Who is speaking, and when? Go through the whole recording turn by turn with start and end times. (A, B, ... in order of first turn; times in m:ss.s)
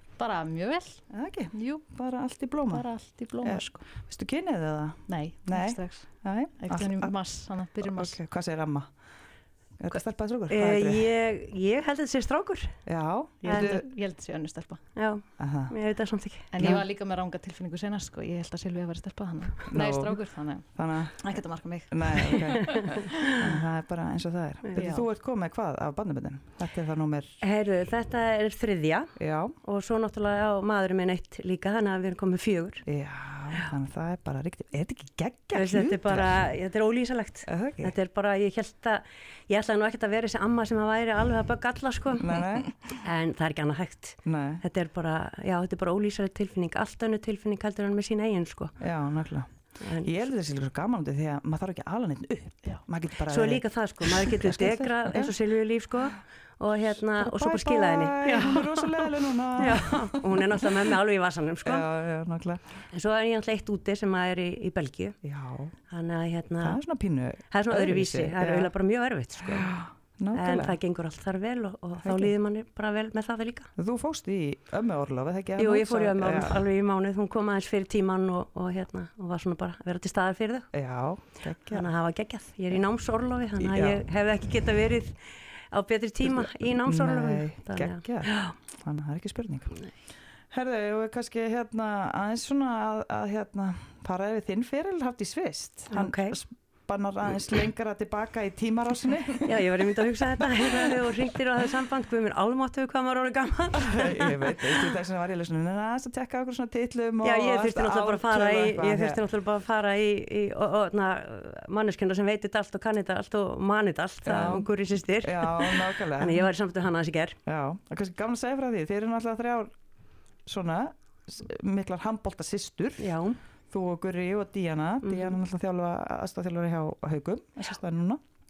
0:00.2-0:01.8 A
0:01.1-0:02.8 B
0:02.7-0:03.8 A
0:03.4-0:07.1 B
0:05.1-0:08.2 A
0:07.8-0:08.9 B
0:09.8-0:11.1 B
0:10.5-0:12.8 C
0:12.8-0:13.8 B
0:13.4-0:13.8 C
0:13.4-0:14.8 A
0:15.0-0:16.8 C
0:15.4-0:15.7 B
0:16.5-0:23.4 A
0:19.7-0:20.2 B
0:20.8-0:21.2 B
0:21.9-0:27.4 B
0:22.6-0:23.3 C
0:24.6-0:25.0 C
0:24.8-0:25.0 A
0:27.4-0:32.8 C
0:29.2-0:29.6 B
0:32.8-0:36.3 B
0:35.5-0:48.8 C
0:37.4-0:37.9 B
0:42.2-0:42.7 B
0:44.2-0:44.6 B
0:48.8-0:55.4 B
0:49.8-0:50.1 C
0:53.3-1:01.9 C
0:56.8-1:00.9 B
1:01.6-1:02.6 B
1:02.9-1:05.2 C
1:05.2-1:05.8 B
1:05.9-1:06.8 C
1:06.6-1:08.7 B
1:07.5-1:09.8 C
1:09.4-1:10.8 B
1:10.3-1:13.7 C
1:12.0-1:12.3 B
1:13.8-1:16.6 B
1:15.6-1:20.7 C
1:20.7-1:21.9 B
1:21.7-1:25.2 C
1:23.6-1:24.0 B
1:25.7-1:28.6 C
1:26.2-1:29.8 B
1:30.5-1:39.6 B
1:35.9-1:36.4 C
1:39.4-1:44.9 C
1:40.4-1:41.1 B
1:43.8-1:49.2 B
1:47.2-1:57.4 C
1:54.2-1:56.5 B
1:57.4-1:59.7 B
2:00.4-2:03.2 B
2:03.0-2:03.4 C
2:03.7-2:08.2 B
2:05.0-2:05.3 C